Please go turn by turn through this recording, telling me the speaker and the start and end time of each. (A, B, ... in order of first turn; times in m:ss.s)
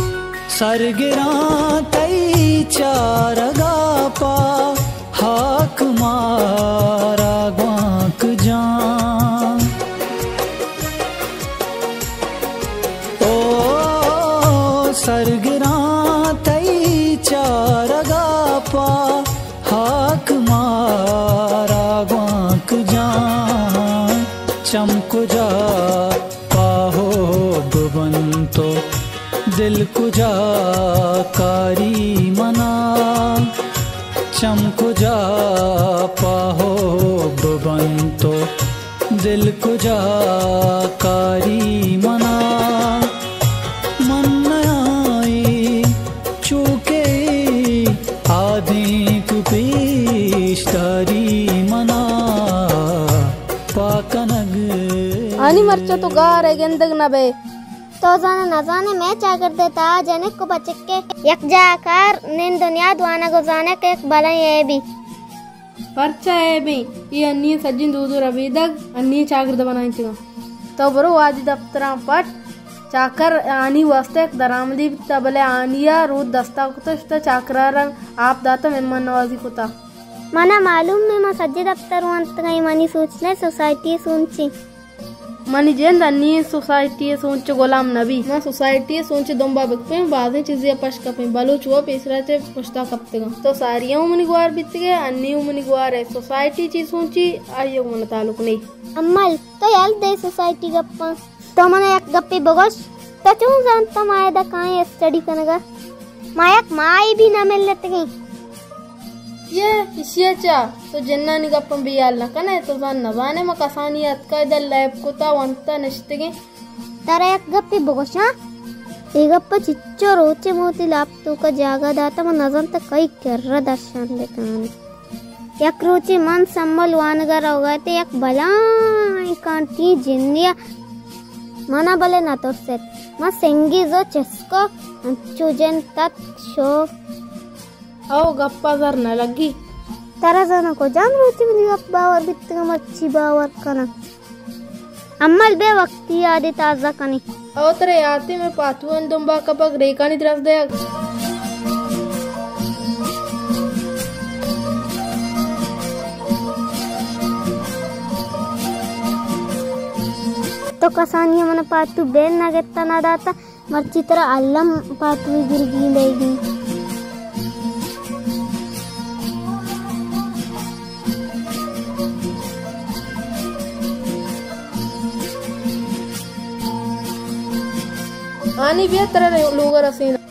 0:00.5-0:09.7 A
0:13.2-0:28.8 A
0:29.5-0:33.5 A
0:34.3-0:38.5 A
0:39.1-0:43.1 A
0:44.0-0:55.9 A
0:55.4-0:57.3 B
0:58.0-1:04.8 C
1:06.0-1:10.2 B
1:10.8-1:12.3 B
1:12.9-1:19.7 B
1:20.3-1:24.5 C
1:25.5-1:38.6 B
1:39.0-1:45.6 C
1:46.4-1:48.1 C
1:49.5-1:56.3 B
1:57.0-1:58.3 C
1:59.2-2:04.7 C
2:05.6-2:10.5 C
2:11.7-2:16.9 C
2:18.1-2:19.5 B
2:20.2-2:23.9 C
2:25.2-2:27.2 C
2:27.6-2:30.7 B
2:40.8-2:46.4 C
2:58.6-3:00.2 B